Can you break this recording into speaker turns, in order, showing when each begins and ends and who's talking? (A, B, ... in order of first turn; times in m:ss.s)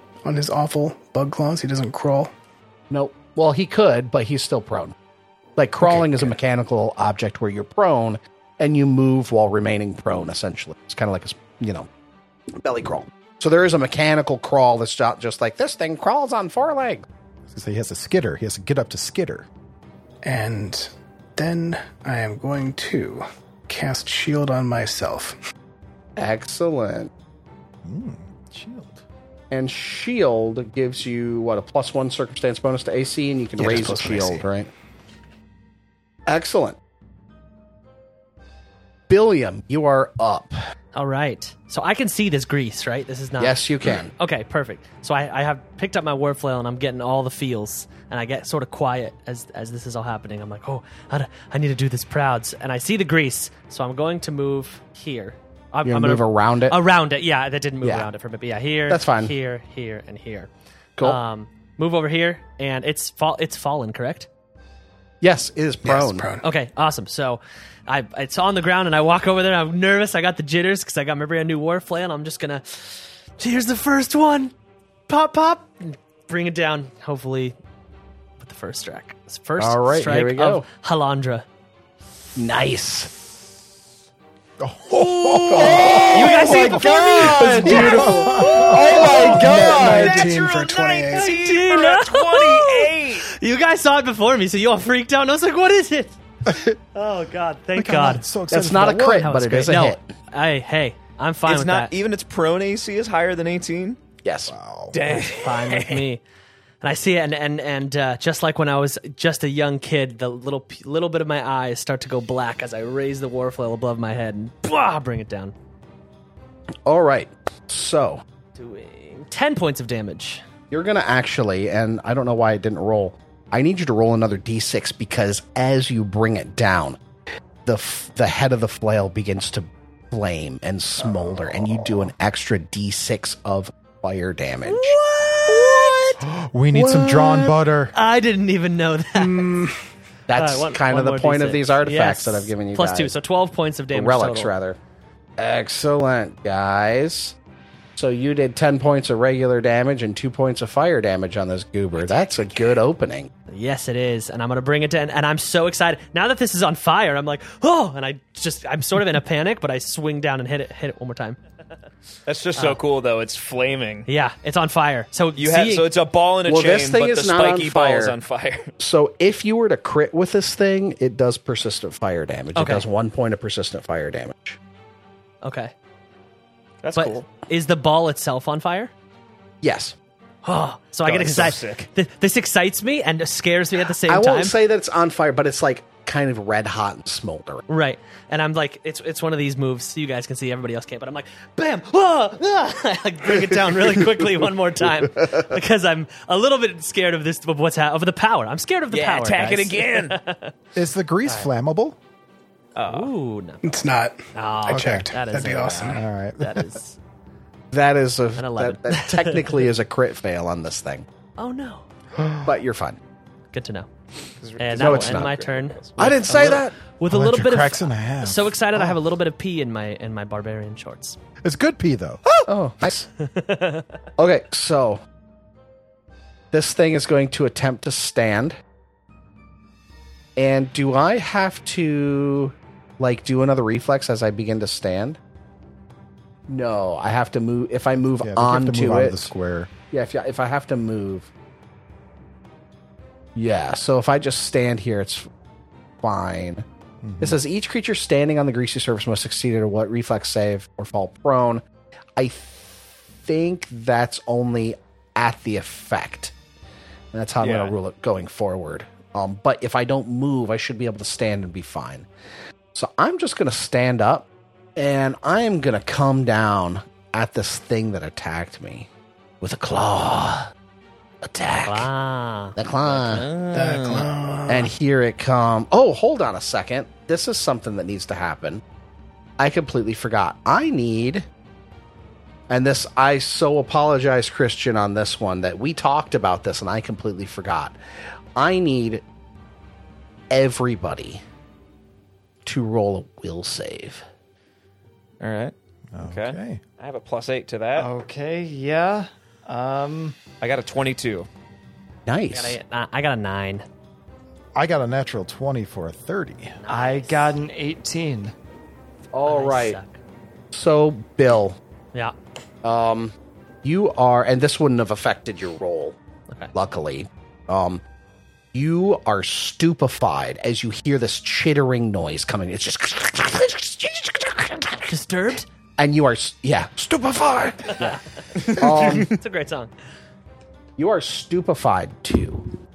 0:00.2-0:02.3 A
0:02.9-0:04.9 B
0:05.6-0:11.9 B
0:05.8-0:06.3 A
0:12.6-0:17.0 B
0:17.5-0:19.5 C
0:20.2-0:25.4 A
0:26.2-0:27.1 B
0:27.8-0:29.0 C
0:29.5-0:34.7 B
0:33.6-0:34.4 A
0:36.3-0:36.8 B
0:39.1-0:40.6 B
0:40.9-0:43.6 D
0:43.4-0:44.1 B
0:44.2-1:00.5 D
0:55.8-0:56.8 B
0:57.8-0:58.1 B
0:58.9-0:59.3 B
1:01.0-1:04.3 D
1:05.2-1:06.3 B
1:05.8-1:06.4 A
1:06.4-1:14.5 D
1:15.1-1:17.6 D
1:18.4-1:21.4 D
1:19.6-1:20.6 B
1:22.4-1:23.1 B
1:24.6-1:29.8 C
1:25.3-1:30.2 D
1:25.5-1:26.0 B
1:26.0-1:30.3 E
1:27.1-1:28.0 F
1:28.7-1:33.3 F
1:28.9-1:31.3 A
1:31.1-1:36.2 D
1:36.5-1:36.8 C
1:36.9-1:38.3 D
1:37.8-1:39.2 C
1:38.5-1:40.1 B
1:38.8-1:41.9 D
1:41.4-1:44.0 F
1:44.2-1:44.5 B
1:44.5-1:45.0 C
1:44.9-1:46.0 F
1:45.0-1:46.2 D
1:46.8-1:55.5 D
1:56.9-1:58.2 B
1:58.6-2:00.4 D
2:00.7-2:07.0 B
2:07.6-2:15.0 B
2:11.1-2:12.1 C
2:14.6-2:16.2 D
2:16.2-2:17.9 C
2:17.2-2:19.5 D
2:19.2-2:19.8 A
2:20.3-2:23.1 B
2:20.3-2:24.5 D
2:23.9-2:24.8 B
2:25.4-2:27.4 B
2:28.0-2:33.3 B
2:32.0-2:32.5 D
2:33.5-2:41.4 D
2:42.3-2:44.1 F
2:44.1-2:45.9 D
2:45.4-2:48.7 F
2:46.4-2:48.2 B
2:48.8-2:54.6 B
2:52.6-2:52.9 D
2:55.4-2:55.7 D
2:56.8-2:57.3 F
2:56.9-2:58.9 D
2:59.6-3:00.0 B
3:00.4-3:04.6 D
3:01.0-3:01.9 F
3:04.0-3:07.6 B
3:07.7-3:20.5 D
3:18.9-3:20.2 F
3:20.7-3:22.0 C
3:21.2-3:21.5 D
3:22.8-3:23.1 F
3:22.8-3:27.0 D
3:23.6-3:26.0 A
3:24.7-3:25.1 C
3:25.9-3:26.8 C
3:27.7-3:31.1 B
3:28.4-3:29.7 D
3:31.4-3:31.9 D
3:32.2-3:32.5 C
3:32.4-3:33.0 B
3:33.5-3:33.9 D
3:34.4-3:36.2 F
3:34.6-3:41.2 D
3:34.7-3:35.4 B
3:36.0-3:36.7 B
3:37.1-3:39.0 C
3:41.4-3:42.2 C
3:42.5-3:43.1 B
3:43.2-3:43.9 D
3:44.2-3:45.0 B
3:46.5-3:48.6 B
3:50.4-3:55.2 B
3:56.5-3:59.3 B
3:58.2-3:59.7 C
3:59.9-4:01.3 B
4:03.4-4:05.3 B
4:06.0-4:06.6 B
4:07.0-4:07.4 C
4:07.2-4:11.6 B
4:12.2-4:16.3 B
4:17.1-4:22.1 B
4:17.4-4:17.7 F
4:22.7-4:28.9 B
4:29.4-4:30.5 B
4:31.2-4:31.9 B
4:31.6-4:32.6 D
4:32.6-4:33.3 B
4:32.9-4:34.1 F
4:33.5-4:34.7 A
4:34.5-4:38.6 B
4:39.4-4:41.3 B
4:42.5-4:47.8 B
4:48.4-4:49.0 B
4:50.3-4:51.2 B
4:52.4-4:54.0 B
4:55.2-4:57.9 F
4:55.9-4:56.6 C
4:57.8-5:00.2 E
5:00.4-5:01.3 F
5:02.1-5:02.6 B
5:02.3-5:03.6 D
5:04.6-5:06.6 C
5:06.6-5:07.3 D
5:06.7-5:08.3 E
5:09.1-5:09.8 B
5:09.2-5:10.0 D
5:10.5-5:11.6 B
5:12.6-5:16.0 B
5:16.5-5:17.8 B
5:18.5-5:24.9 B
5:24.9-5:25.4 D
5:25.8-5:27.9 B
5:27.8-5:29.7 D
5:28.5-5:29.1 F
5:28.6-5:29.1 B
5:30.8-5:32.5 B